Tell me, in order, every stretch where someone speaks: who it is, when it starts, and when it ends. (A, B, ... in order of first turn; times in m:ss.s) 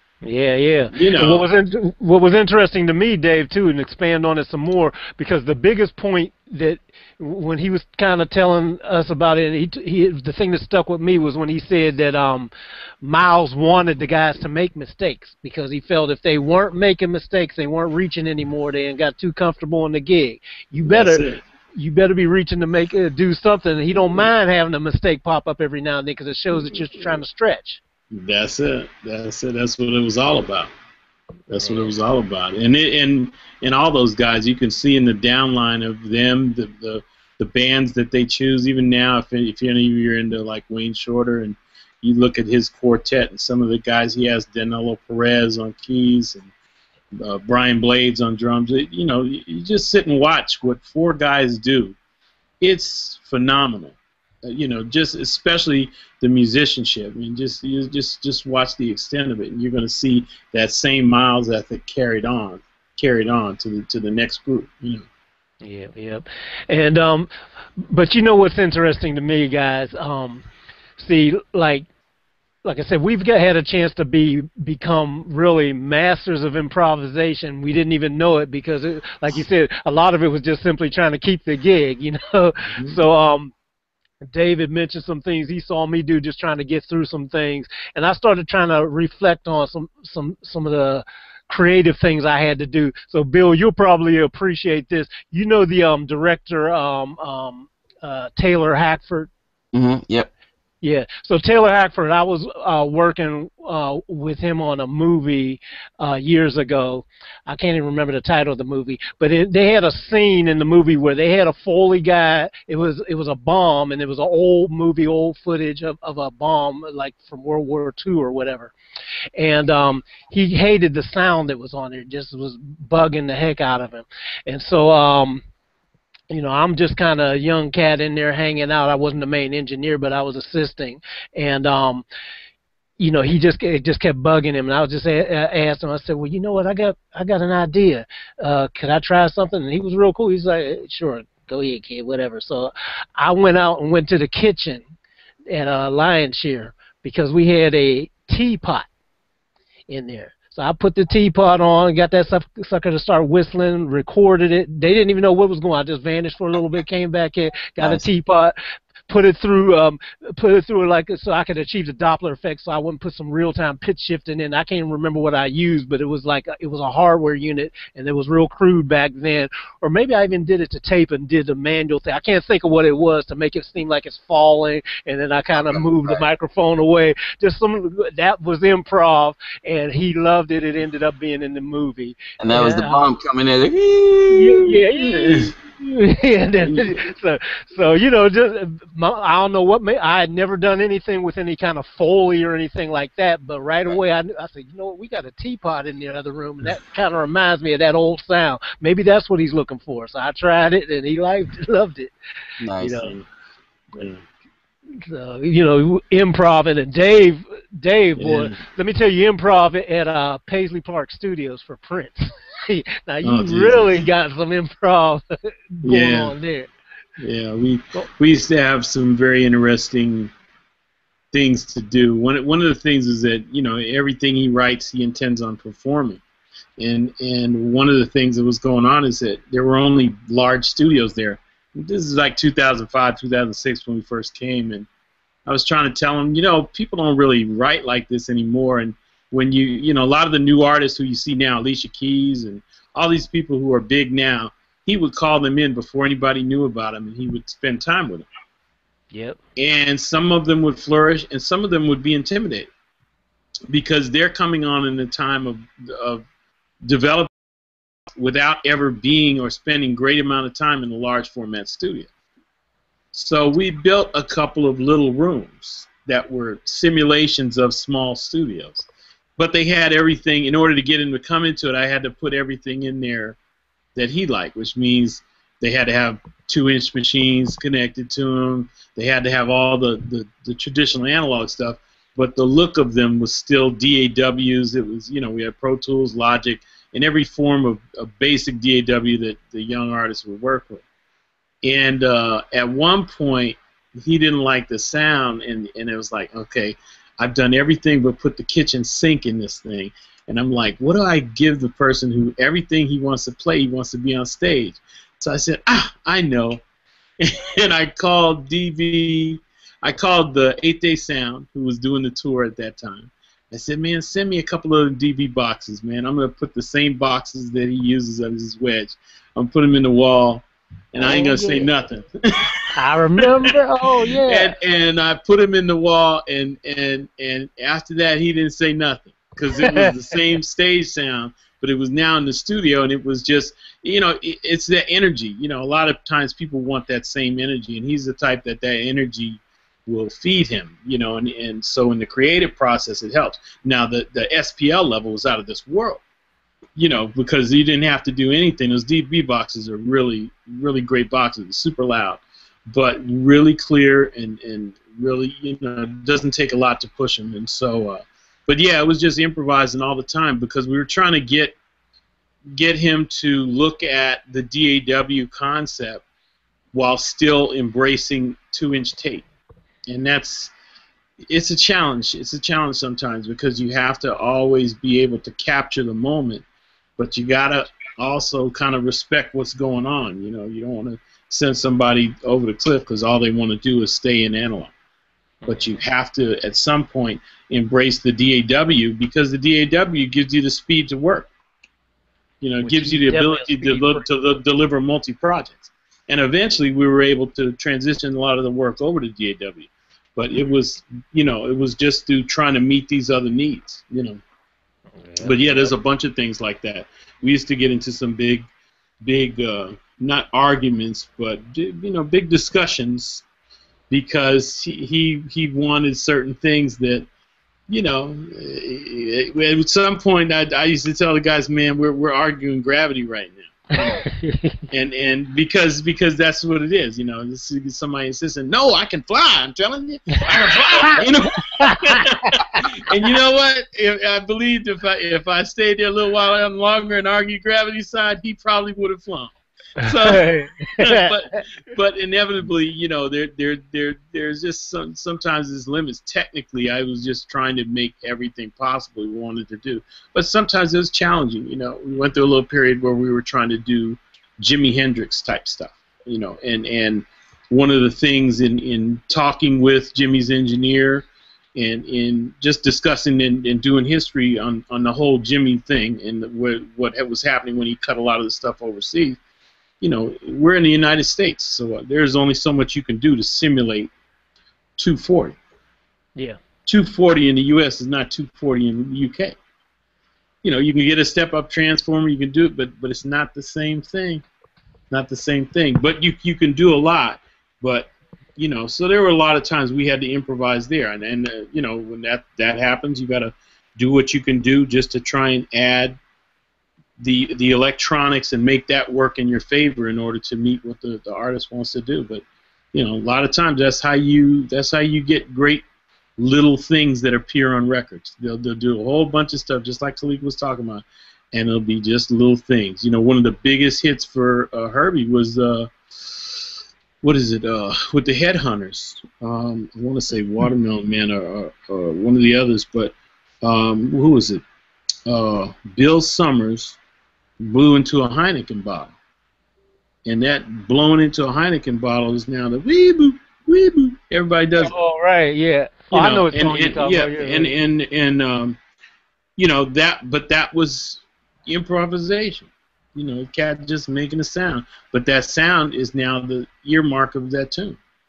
0:00.2-0:12.5 A
0:00.9-0:01.5 B
0:13.0-0:27.8 A
0:20.9-0:21.4 B
0:28.1-0:30.7 B
0:31.5-0:46.5 B
0:31.6-0:31.9 A
0:47.1-0:52.0 B
0:52.6-1:05.0 B
1:05.6-1:10.4 A
1:11.0-1:11.9 A
1:12.6-1:23.5 A
1:24.3-1:39.3 A
1:39.7-1:40.3 C
1:40.8-1:58.7 A
1:59.4-2:05.4 A
2:06.3-2:12.0 A
2:13.0-2:24.8 A
2:25.5-2:28.9 A
2:29.9-2:38.6 A
2:37.8-2:38.0 C
2:39.1-3:03.0 A
2:55.5-2:56.2 C
3:02.4-3:05.5 C
3:04.3-3:22.1 A
3:22.6-3:23.1 C
3:22.8-3:23.1 A
3:23.0-3:23.2 B
3:23.9-3:24.2 B
3:25.0-3:35.2 A
3:28.2-3:28.6 B
3:33.2-3:34.0 B
3:35.8-3:36.7 A
3:35.8-3:36.3 B
3:37.2-3:40.3 B
3:41.3-3:46.2 B
3:46.8-3:54.9 B
3:55.4-4:08.3 B
4:09.1-4:09.4 A
4:09.6-4:12.7 B
4:13.7-4:16.2 B
4:16.8-4:17.3 B
4:18.2-4:22.1 B
4:23.1-4:28.8 B
4:29.4-4:33.4 B
4:34.0-4:50.8 B
4:51.6-5:06.6 B
5:07.2-5:23.6 B
5:21.0-5:21.7 A
5:22.7-5:24.5 A
5:24.1-5:46.0 B
5:29.6-5:29.9 A
5:46.8-6:01.6 B
6:02.6-6:06.0 B
6:06.7-6:09.2 B
6:09.9-6:10.5 B
6:11.3-6:16.4 B
6:17.0-6:24.7 B
6:25.4-6:25.8 A
6:25.5-6:31.3 B
6:32.4-6:44.2 B
6:32.6-6:34.0 A
6:45.0-6:45.7 A
6:45.2-6:48.4 B
6:49.0-6:53.2 B
6:53.9-6:57.1 B
6:57.7-7:04.0 B
7:03.8-7:04.6 A
7:04.7-7:49.2 B
7:10.1-7:11.0 A
7:11.6-7:12.6 A
7:19.8-7:21.1 A
7:49.8-7:53.9 B
7:54.8-7:55.4 B
7:56.6-7:59.4 B
8:00.4-8:04.2 B
8:04.9-8:16.0 B
8:17.0-8:25.6 B
8:26.2-8:36.4 B
8:37.0-8:44.4 B
8:45.0-8:46.8 B
8:47.4-8:48.9 B
8:50.0-8:54.7 B
8:54.6-8:57.5 A
8:55.9-8:58.6 B
8:59.4-9:07.8 B